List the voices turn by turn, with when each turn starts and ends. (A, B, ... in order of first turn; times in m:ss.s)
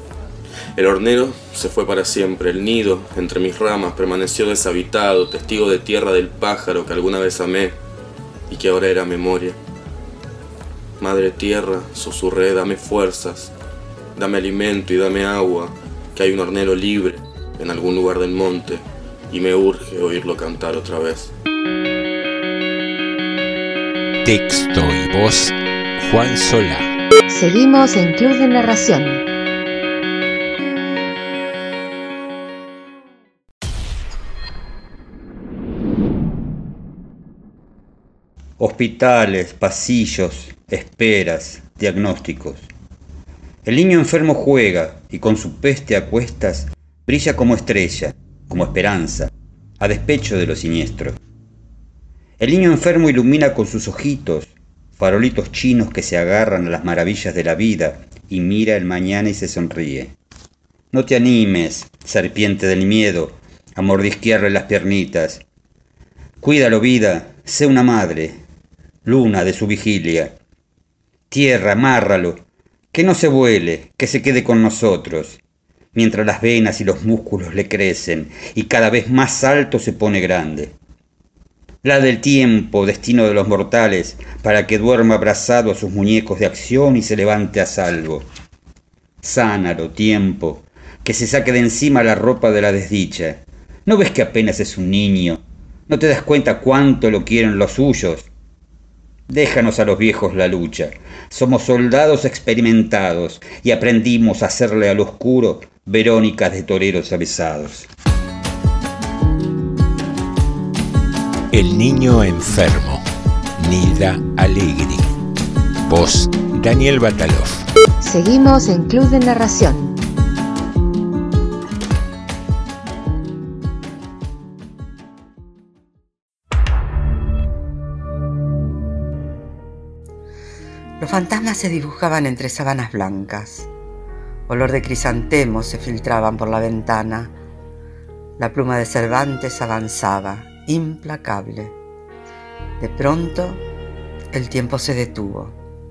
0:00.8-0:07.8 A
0:08.5-0:09.6 A
0:11.0-0:13.5 A
0:14.2-0:21.3 A
0:24.2-0:26.9 B
0:27.3-0:29.2 C
0:38.6-0:42.7 D
0:43.6-0:51.2 D
0:52.4-1:00.2 D
1:00.9-1:05.4 D
1:06.4-1:08.4 D
1:09.0-1:10.4 D
1:11.3-1:15.4 D
1:15.9-1:20.7 D
1:21.8-1:28.2 D
1:29.2-1:38.3 D
1:39.3-1:47.9 D
1:51.5-1:53.0 B
1:53.6-1:55.1 B
1:55.8-1:57.7 B
1:58.0-2:00.0 C
2:11.0-2:13.7 E
2:14.5-2:17.4 E
2:18.4-2:21.8 E
2:22.8-2:23.6 E
2:24.3-2:25.6 E